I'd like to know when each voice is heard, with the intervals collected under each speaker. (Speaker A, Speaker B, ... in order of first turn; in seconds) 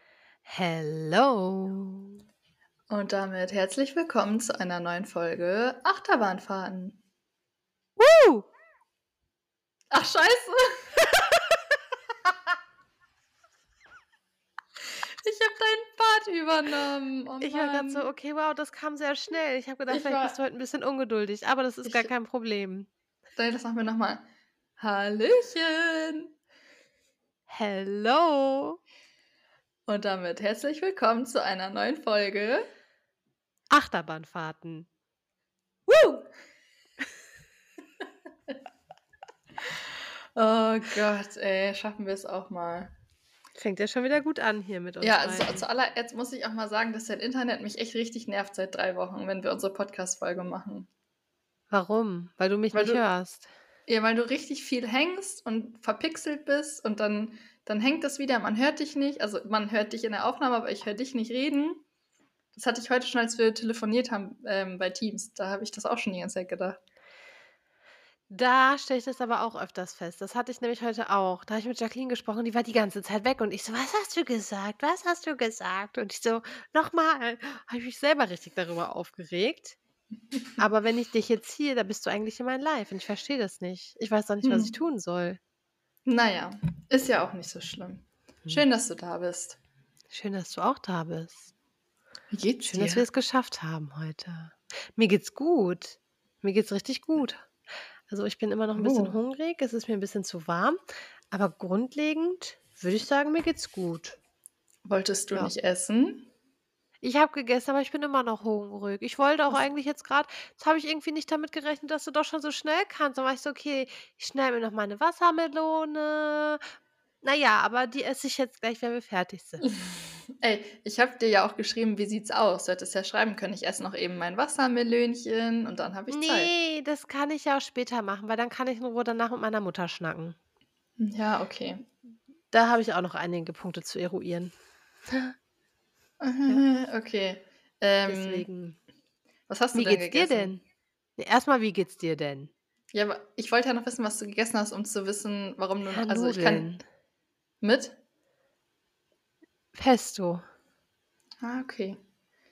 Speaker A: 0.5-2.2, 8.0-8.5, 17.4-22.9, 27.5-28.8, 33.7-34.9, 35.9-36.3, 43.5-45.6, 51.7-53.5, 68.3-79.8, 80.6-85.4, 90.1-91.5, 92.6-97.5, 98.1-100.8, 101.3-104.2, 107.0-116.6, 117.2-119.6, 126.1-130.4, 132.5-134.5, 135.1-135.3, 138.1-138.8, 139.7-140.6, 141.2-142.5, 145.8-146.8, 149.7-150.4
Speaker B: 2.9-7.0, 9.9-10.9, 15.2-18.1, 19.9-20.4, 21.8-22.1, 23.4-24.2, 24.8-26.3, 29.9-32.7, 40.4-42.9, 45.0-50.9, 52.7-53.0, 53.9-61.8, 62.5-66.8, 84.4-84.7, 86.0-89.6, 92.3-93.0, 98.8-99.1, 104.8-106.3, 119.6-126.5, 131.0-131.9, 136.2-138.5, 139.5-140.6, 142.9-146.7, 147.6-148.0, 151.4-152.0